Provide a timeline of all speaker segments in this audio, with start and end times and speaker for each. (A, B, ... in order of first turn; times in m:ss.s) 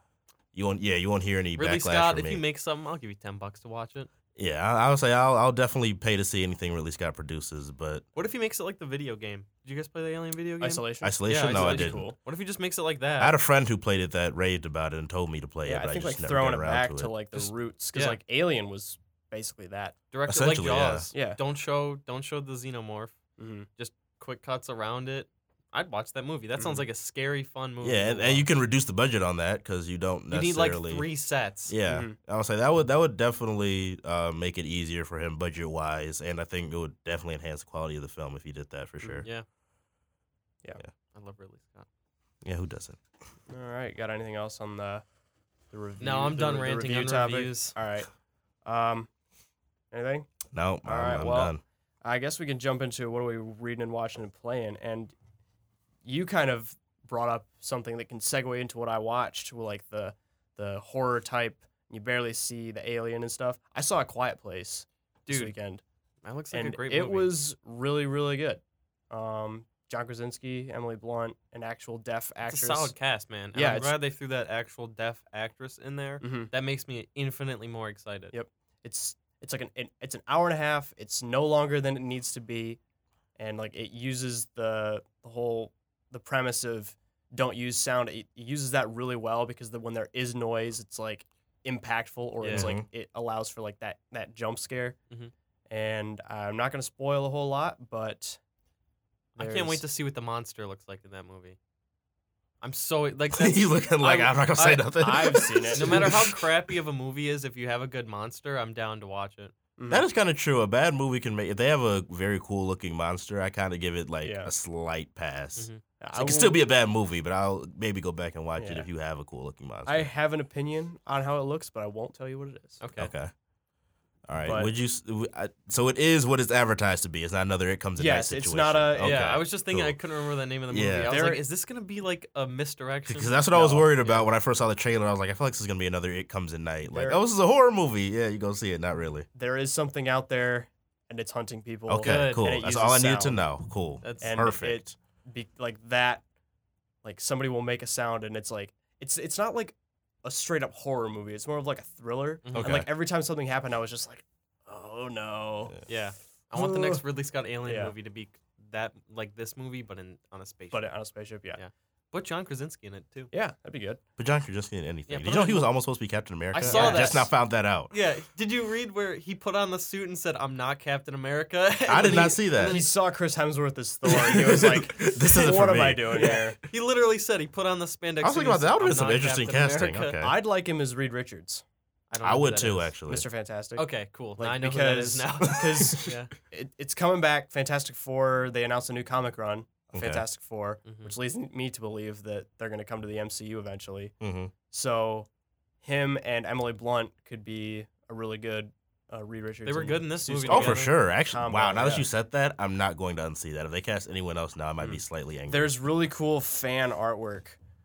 0:00.5-0:02.4 A
0:01.6-0:04.1 B
0:04.4-0:08.0 A
0:08.2-0:13.4 B
0:10.6-0:12.2 C
0:11.0-0:12.1 A
0:13.2-0:17.1 A
0:15.6-0:20.0 C
0:17.3-0:18.2 B
0:20.1-0:23.2 B
0:20.3-0:21.1 A
0:21.1-0:21.4 C
0:23.4-0:23.7 C
0:23.8-0:28.5 B
0:26.6-0:26.8 C
0:27.8-0:31.1 A
0:30.3-0:31.8 B
0:31.7-0:39.3 A
0:31.9-0:32.2 C
0:41.1-0:41.9 B
0:42.4-0:43.0 A
0:43.5-0:45.0 C
0:45.7-0:48.1 C
0:46.0-0:47.7 B
0:48.6-0:49.1 C
0:49.9-0:50.3 C
0:50.5-0:51.6 A
0:50.8-0:55.1 C
0:56.0-1:05.8 C
1:05.3-1:05.5 B
1:06.2-1:07.4 B
1:06.5-1:12.9 C
1:12.5-1:18.3 B
1:13.5-1:13.9 C
1:16.2-1:16.5 C
1:18.3-1:22.8 C
1:23.4-1:35.0 C
1:32.4-1:32.7 B
1:32.5-1:32.9 A
1:35.7-1:38.4 C
1:39.4-1:39.8 C
1:39.4-1:41.6 B
1:42.6-1:49.5 B
1:43.3-1:46.4 A
1:45.0-1:46.2 C
1:49.8-1:50.0 C
1:49.9-2:00.1 A
1:54.2-1:54.5 C
1:55.6-1:55.8 B
1:56.0-1:56.6 C
1:58.6-1:58.9 C
1:59.8-2:02.8 C
2:02.8-2:03.1 B
2:03.0-2:03.3 A
2:04.3-2:10.0 A
2:04.4-2:04.7 C
2:08.0-2:09.2 C
2:09.0-2:13.4 B
2:10.7-2:11.1 A
2:11.1-2:11.4 C
2:13.1-2:19.3 A
2:13.5-2:13.9 C
2:14.0-2:14.3 B
2:16.9-2:17.2 C
2:19.3-2:23.4 C
2:21.9-2:24.9 A
2:22.0-2:22.5 B
2:24.0-2:24.5 B
2:24.2-2:26.2 C
2:27.0-2:35.8 C
2:32.4-2:32.8 B
2:32.5-2:32.9 A
2:35.9-2:40.9 B
2:36.5-2:37.0 C
2:37.6-2:37.9 C
2:40.7-2:41.6 C
2:41.6-2:43.3 B
2:43.3-2:44.0 C
2:44.2-2:47.9 A
2:45.1-2:45.7 B
2:46.5-2:47.3 B
2:46.6-2:47.3 C
2:47.9-2:52.9 B
2:51.9-2:52.8 A
2:52.2-2:56.6 C
2:54.2-2:56.4 A
2:56.2-3:00.2 B
2:58.2-3:00.4 A
3:00.2-3:01.6 C
3:02.1-3:02.9 B
3:02.2-3:03.3 A
3:03.1-3:14.1 C
3:03.8-3:06.3 B
3:05.6-3:06.1 A
3:09.9-3:10.2 A
3:10.8-3:11.1 B
3:14.2-3:14.5 A
3:14.7-3:15.3 C
3:15.8-3:22.1 C
3:19.6-3:20.9 B
3:20.4-3:25.7 A
3:25.5-3:27.6 C